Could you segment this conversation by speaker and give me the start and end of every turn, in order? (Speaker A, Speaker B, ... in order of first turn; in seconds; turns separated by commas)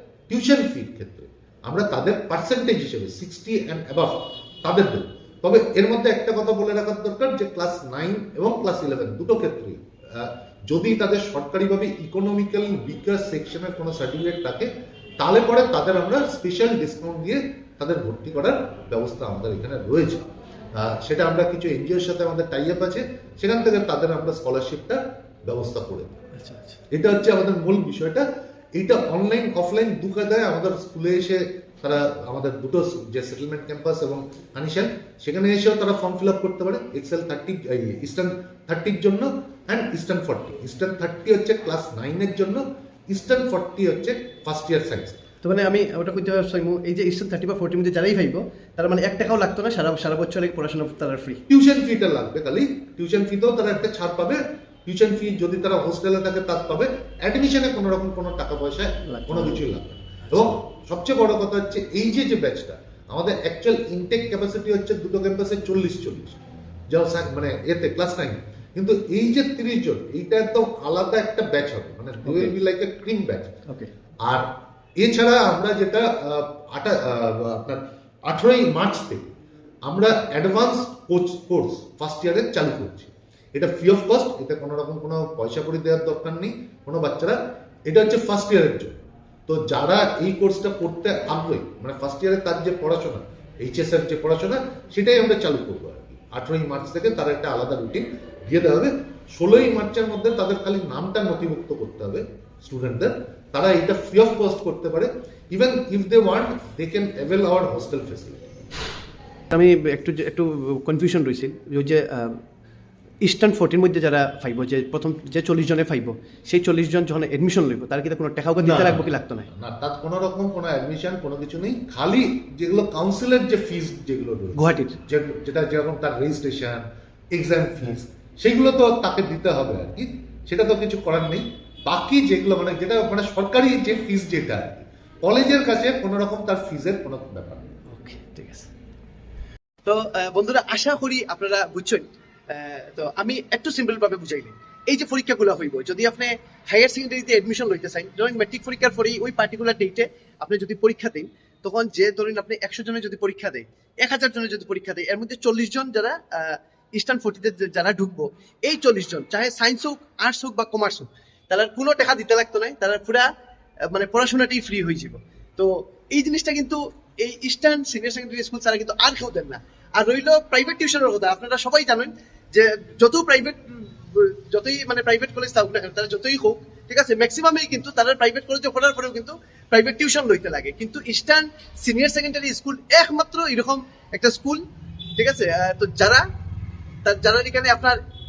Speaker A: 0.3-26.2, Speaker B: 26.4-26.8, Speaker A: 26.9-45.2, Speaker B: 45.4-51.4, Speaker A: 51.5-73.5, Speaker B: 59.1-59.6, Speaker B: 72.2-72.5, Speaker A: 74.2-79.3, Speaker A: 79.8-108.5, Speaker B: 109.5-112.4, Speaker B: 113.2-119.5, Speaker A: 118.6-137.7, Speaker B: 124.6-125.0, Speaker B: 137.9-138.7, Speaker B: 139.8-163.3, Speaker B: 163.9-184.6, Speaker B: 185.2-186.2, Speaker B: 187.1-188.0